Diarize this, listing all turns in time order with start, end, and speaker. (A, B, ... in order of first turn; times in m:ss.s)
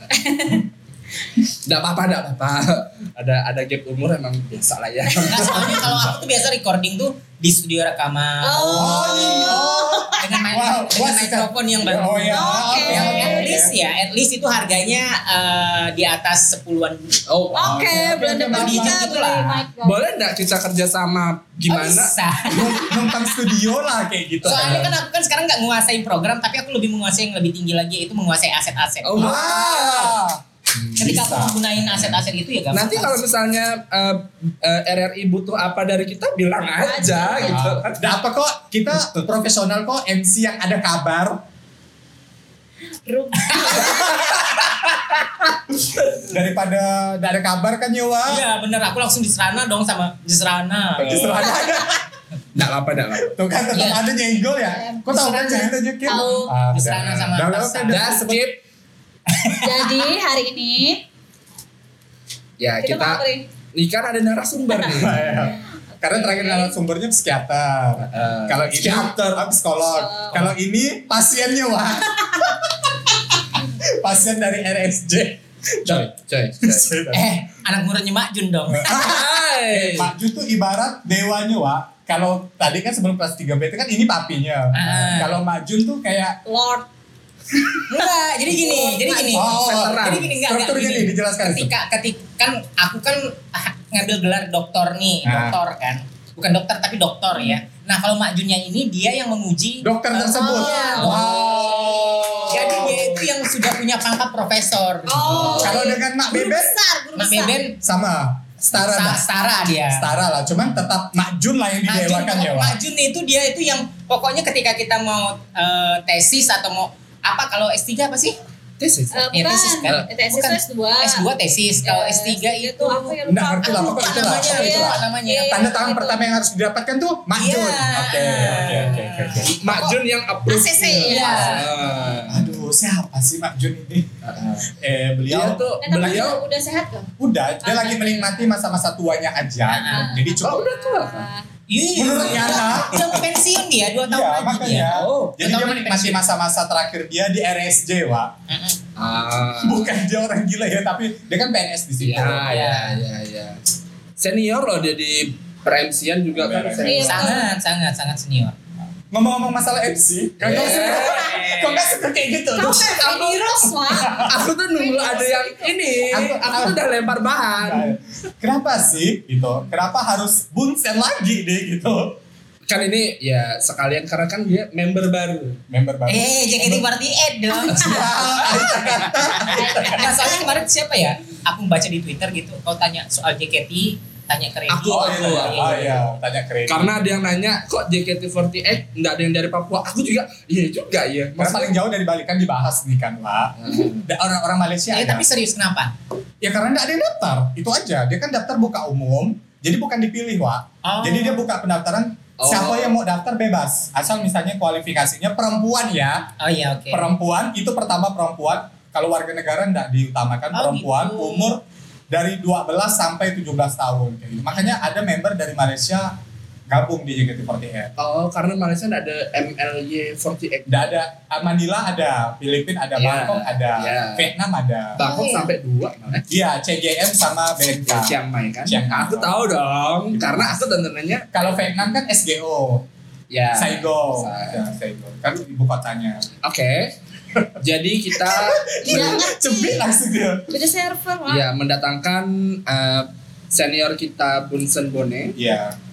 0:00.1-0:00.7 A
0:01.6-0:05.5 B
0:05.1-0:05.8 A
0:05.3-0:09.2 C
0:05.4-0:06.2 D
0:08.4-0:10.4 A
0:08.7-0:13.8 D
0:10.2-0:17.2 C
0:12.3-0:13.6 A
0:17.3-0:17.8 B
0:17.5-0:20.0 A
0:17.5-0:19.2 D
0:18.5-0:19.6 C
0:19.8-0:22.2 B
0:21.6-0:23.1 C
0:22.5-0:24.9 D
0:24.4-0:29.1 C
0:24.4-0:24.9 B
0:29.0-0:30.2 B
0:29.2-0:30.4 D
0:30.8-0:31.2 B
0:31.0-0:33.2 C
0:31.0-0:31.6 D
0:32.7-0:38.0 B
0:36.8-0:37.6 A
0:37.4-0:41.4 D
0:43.1-0:44.5 A
0:43.5-0:44.0 C
0:43.7-0:44.7 D
0:45.8-0:48.4 D
0:48.3-0:51.2 C
0:51.0-0:52.1 D
0:51.0-0:51.6 B
0:52.6-0:53.3 B
0:53.2-0:58.5 D
0:53.7-0:54.1 C
0:54.7-0:58.2 C
0:56.1-0:56.5 A
0:57.9-0:58.6 B
0:59.5-1:01.0 A
1:02.6-1:05.5 B
1:02.8-1:03.5 A
1:04.7-1:06.8 A
1:04.9-1:16.1 D
1:08.0-1:09.5 B
1:10.0-1:10.5 A
1:15.9-1:17.0 B
1:16.6-1:17.4 D
1:17.1-1:19.1 C
1:18.7-1:26.4 D
1:18.9-1:20.1 B
1:24.7-1:25.4 C
1:26.4-1:26.9 A
1:27.5-1:29.5 A
1:27.9-1:41.5 C
1:29.3-1:31.7 D
1:29.5-1:30.4 B
1:35.2-1:35.6 D
1:39.8-1:43.1 D
1:40.4-1:42.0 A
1:41.0-1:42.9 B
1:42.5-1:45.8 C
1:45.1-1:47.6 A
1:45.3-1:45.7 B
1:45.4-1:46.8 D
1:47.2-1:47.8 C
1:47.8-1:49.2 D
1:48.7-1:50.1 C
1:49.9-1:52.8 D
1:51.9-1:58.4 C
1:58.8-2:00.1 B
1:59.1-2:01.3 A
1:59.3-2:05.7 C
2:01.8-2:06.3 A
2:03.3-2:09.5 D
2:07.4-2:11.7 C
2:08.4-2:12.6 B
2:11.0-2:11.7 A
2:12.3-2:14.1 D
2:14.2-2:14.7 B
2:14.6-2:16.4 D
2:15.3-2:16.4 B
2:15.8-2:18.4 A
2:17.2-2:20.7 D
2:19.7-2:20.2 C
2:19.9-2:21.5 A
2:20.4-2:21.3 B
2:21.7-2:26.2 C
2:22.0-2:23.3 D
2:24.0-2:28.3 D
2:28.5-2:28.8 C
2:29.0-2:29.9 B
2:29.6-2:32.5 D
2:32.0-2:33.6 B
2:32.4-2:33.0 C
2:34.2-2:37.4 B
2:36.3-2:37.1 D
2:36.8-2:37.5 A
2:37.1-2:38.6 C
2:39.1-2:44.4 D
2:40.4-2:41.3 B
2:40.5-2:41.9 C
2:42.5-2:45.8 A
2:44.1-2:47.9 B
2:46.1-2:46.8 D
2:47.6-2:52.2 D
2:52.7-2:55.6 B
2:55.7-2:56.9 D
2:56.1-3:06.0 C
2:57.6-3:00.4 D
2:58.1-2:58.6 B
2:59.4-3:00.6 A
3:04.7-3:05.9 B
3:04.8-3:06.9 D
3:06.7-3:11.8 B
3:11.4-3:15.2 D
3:13.6-3:14.0 B
3:14.9-3:15.9 C
3:16.4-3:26.3 D
3:20.8-3:21.4 C
3:22.4-3:23.0 B
3:26.4-3:27.1 C
3:26.9-3:36.2 D
3:30.5-3:31.6 C
3:36.7-3:37.9 D
3:38.0-3:40.9 B
3:40.7-3:45.0 D
3:43.0-3:44.3 B
3:45.0-3:46.3 B
3:45.0-3:45.5 C
3:46.3-3:49.4 D
3:47.9-3:51.3 B
3:50.1-3:50.6 D
3:51.3-3:52.9 D
3:53.3-3:54.6 B
3:53.5-3:56.3 D
3:56.4-3:56.9 B
3:57.6-3:59.2 B
3:58.2-4:00.6 D
3:58.8-3:59.8 A
4:00.5-4:01.5 A
4:01.3-4:05.4 B
4:05.4-4:05.8 D